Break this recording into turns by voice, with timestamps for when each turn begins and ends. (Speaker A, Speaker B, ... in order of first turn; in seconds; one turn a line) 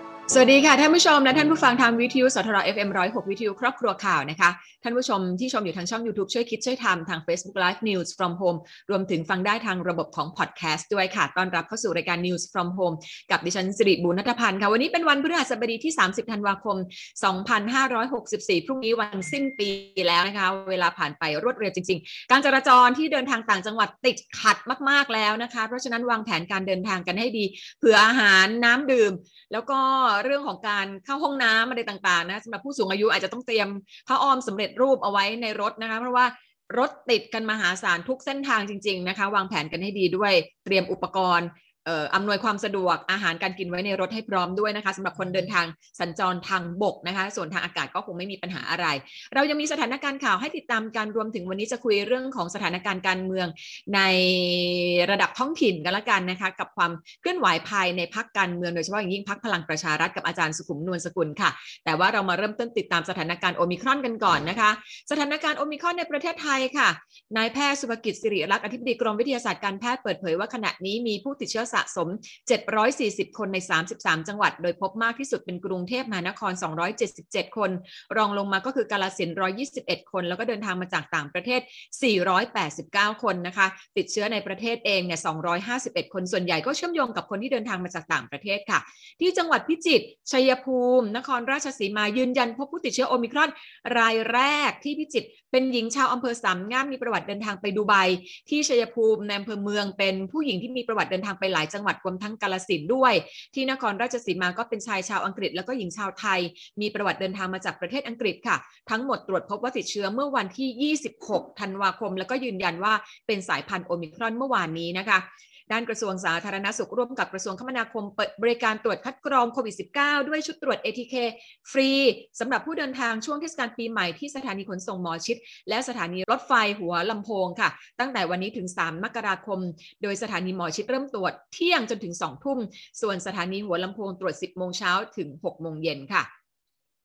Speaker A: 0.3-136.3